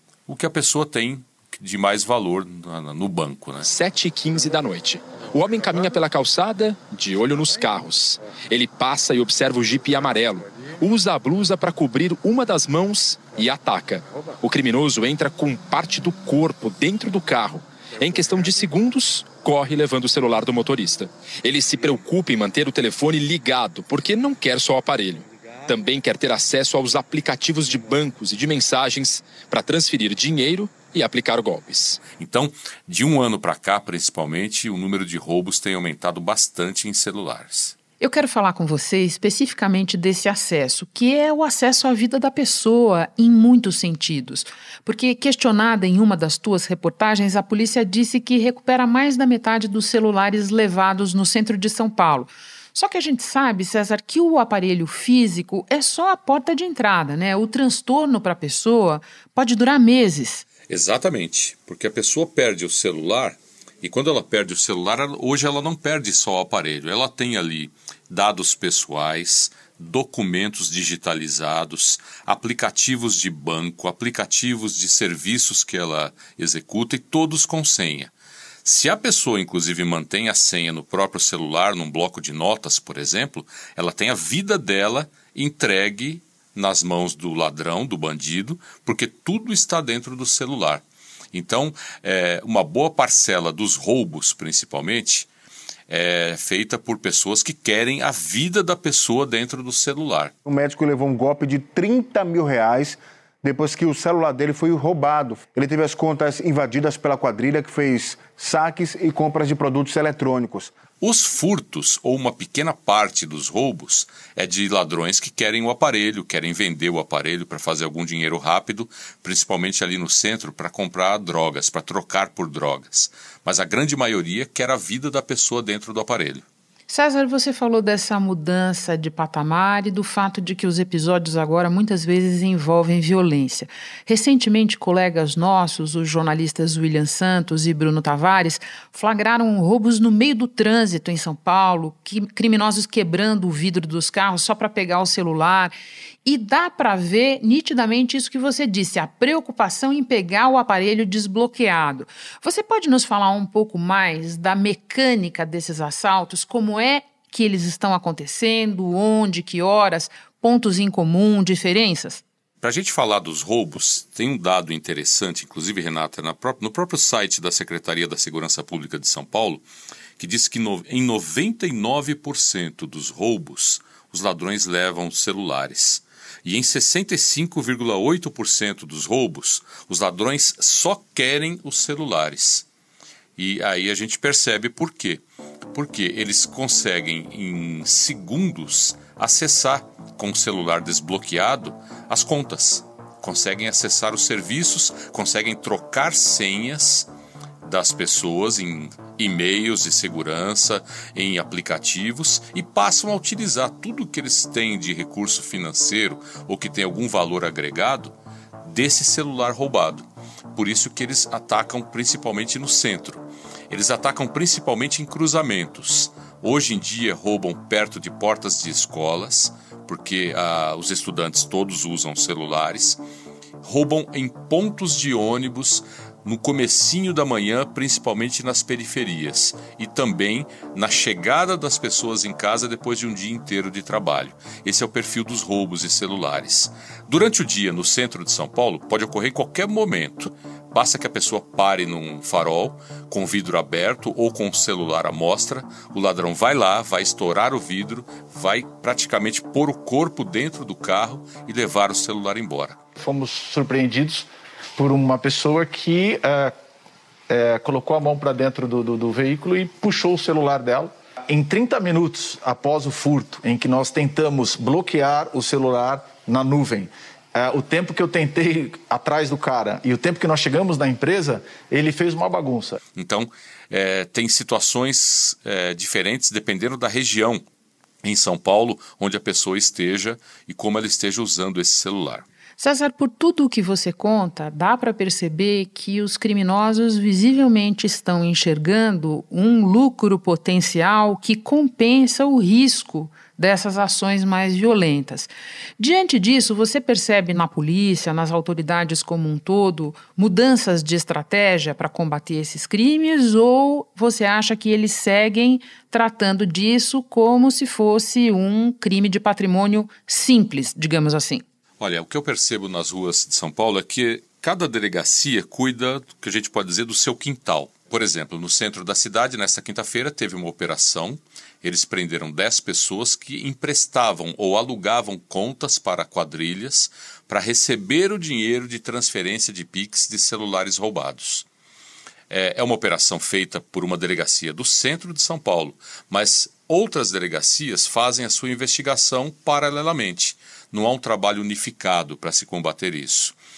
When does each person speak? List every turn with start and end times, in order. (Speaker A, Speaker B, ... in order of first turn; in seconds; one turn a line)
Speaker A: 0.3-3.7
Speaker B: 3.6-32.0
Speaker A: 32.2-37.8
Speaker C: 38.0-60.5
Speaker A: 60.7-78.1
Speaker A: 78.6-95.3
Speaker A: 95.9-100.3
Speaker D: 100.5-110.7
Speaker A: 111.0-126.5
Speaker C: 126.9-145.7
Speaker C: 146.2-162.2
Speaker A: 162.6-169.6
Speaker A: 170.2-182.7
Speaker A: 183.4-185.2
Speaker A: 185.7-197.1
Speaker A: 197.6-223.0
Speaker A: 223.6-252.8
Speaker E: 253.0-256.5
Speaker E: 257.3-272.8
Speaker A: 273.0-277.4
Speaker A: 278.0-282.2
Speaker C: 282.6-311.4
Speaker A: 311.8-331.5
Speaker A: 332.3-343.4